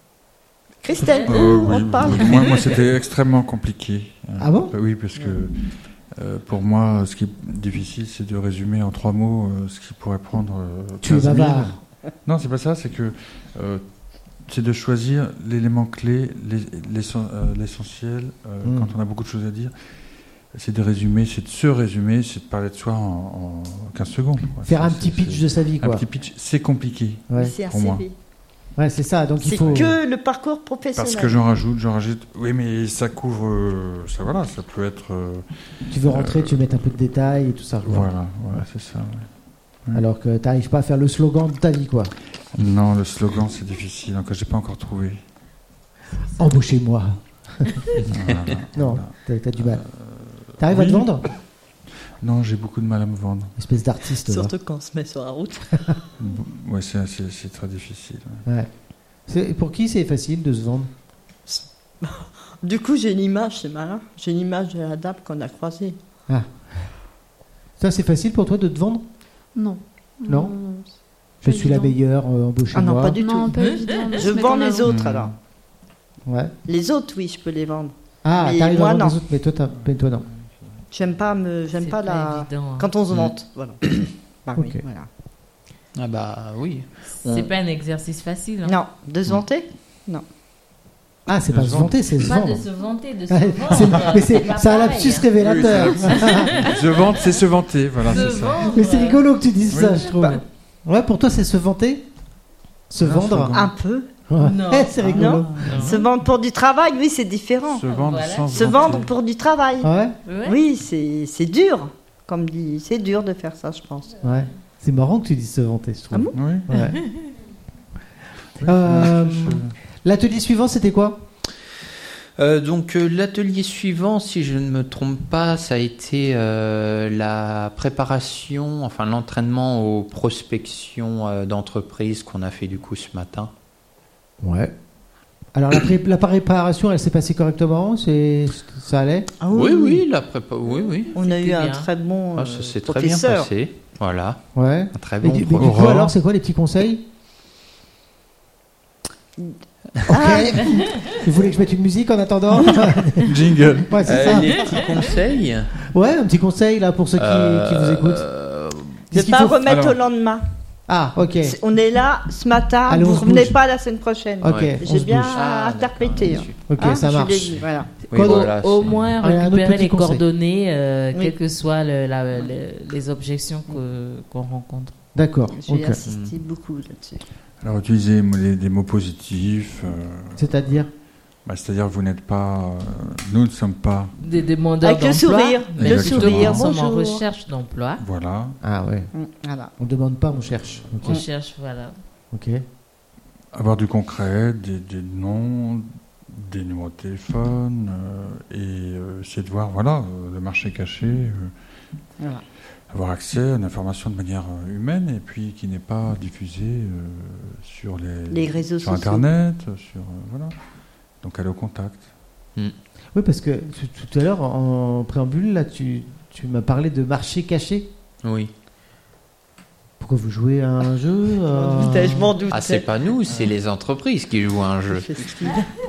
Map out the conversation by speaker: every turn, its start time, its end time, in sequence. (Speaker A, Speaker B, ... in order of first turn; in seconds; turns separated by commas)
Speaker A: 0.8-2.8, Speaker B: 0.9-1.4, Speaker C: 1.1-5.6, Speaker D: 4.4-4.7, Speaker C: 6.1-13.8, Speaker D: 11.0-11.8, Speaker C: 14.4-19.7, Speaker D: 18.6-18.9, Speaker C: 20.5-28.1, Speaker D: 24.6-26.1, Speaker A: 27.3-28.1, Speaker D: 28.8-29.9, Speaker A: 29.4-31.4, Speaker C: 29.5-30.0, Speaker C: 30.9-36.6, Speaker D: 35.9-38.1, Speaker C: 37.8-39.3, Speaker D: 39.9-42.1, Speaker C: 42.5-45.2, Speaker D: 46.4-47.7, Speaker E: 48.1-48.4, Speaker C: 48.1-51.1, Speaker D: 48.7-49.8, Speaker D: 50.6-51.2, Speaker C: 52.2-53.5, Speaker D: 53.6-54.5, Speaker A: 54.2-56.0, Speaker C: 56.2-58.4, Speaker D: 59.2-60.9, Speaker A: 61.5-66.0, Speaker D: 66.3-66.9, Speaker D: 67.8-69.0, Speaker F: 69.5-72.0, Speaker D: 70.3-70.5, Speaker D: 71.4-73.2, Speaker A: 72.7-73.5, Speaker F: 73.2-75.0, Speaker B: 73.6-74.0, Speaker A: 74.1-75.3, Speaker C: 74.8-75.3, Speaker D: 76.2-76.5, Speaker A: 76.7-79.2, Speaker D: 78.2-80.2, Speaker C: 79.7-80.8, Speaker A: 80.9-83.8, Speaker B: 81.8-82.9, Speaker A: 84.4-85.1, Speaker D: 84.6-84.8, Speaker E: 86.0-87.5, Speaker B: 87.2-88.8, Speaker A: 88.6-90.2, Speaker D: 91.3-92.6, Speaker C: 91.5-92.0, Speaker B: 92.2-97.2, Speaker D: 93.3-96.7, Speaker C: 95.4-98.7, Speaker B: 98.0-99.2, Speaker D: 98.6-102.0, Speaker C: 99.7-100.3, Speaker D: 102.9-103.5, Speaker C: 103.0-103.7, Speaker A: 103.5-104.1, Speaker D: 104.3-105.9, Speaker B: 104.4-106.0, Speaker C: 105.1-106.0, Speaker A: 105.1-107.8, Speaker C: 107.7-109.1, Speaker B: 107.9-109.0, Speaker A: 108.5-109.9, Speaker D: 109.8-110.2, Speaker B: 110.2-110.6, Speaker A: 110.4-114.2, Speaker D: 114.2-117.0, Speaker C: 116.3-116.7, Speaker B: 116.7-117.4, Speaker C: 118.6-119.7, Speaker D: 118.6-121.2, Speaker E: 122.4-133.5, Speaker D: 134.4-134.7, Speaker D: 135.5-139.3, Speaker A: 139.4-140.0, Speaker E: 139.5-141.1, Speaker A: 141.1-143.5, Speaker B: 141.1-141.9, Speaker E: 142.4-144.4, Speaker D: 144.6-147.0, Speaker E: 144.9-146.1, Speaker C: 145.6-146.1, Speaker A: 149.4-150.9, Speaker D: 150.1-154.7, Speaker C: 153.2-154.0, Speaker E: 154.0-155.7, Speaker D: 155.9-158.2, Speaker E: 157.2-159.0, Speaker D: 159.1-159.6, Speaker A: 159.1-160.4, Speaker C: 159.6-160.0, Speaker D: 160.9-161.6, Speaker A: 161.4-167.9, Speaker D: 162.9-163.6, Speaker D: 164.4-165.4, Speaker E: 164.4-166.7, Speaker D: 166.7-168.5, Speaker E: 168.1-169.0, Speaker B: 168.1-174.9, Speaker D: 169.2-170.2, Speaker D: 175.1-176.0, Speaker A: 175.5-177.2, Speaker E: 176.1-176.3, Speaker C: 177.6-180.8, Speaker D: 180.4-180.9, Speaker C: 181.4-184.1, Speaker B: 184.2-188.0, Speaker A: 184.8-187.2, Speaker C: 185.8-186.6, Speaker C: 188.0-188.6, Speaker D: 188.6-189.1, Speaker A: 189.1-189.7, Speaker D: 189.8-191.2, Speaker B: 191.0-191.9, Speaker D: 192.3-192.6, Speaker C: 193.5-201.5, Speaker A: 202.2-202.4, Speaker C: 202.9-210.6, Speaker A: 208.3-209.2, Speaker C: 211.2-212.1, Speaker D: 213.1-217.9, Speaker E: 218.2-218.5, Speaker D: 220.0-222.4, Speaker A: 221.5-222.9, Speaker E: 222.5-225.2, Speaker A: 224.9-225.7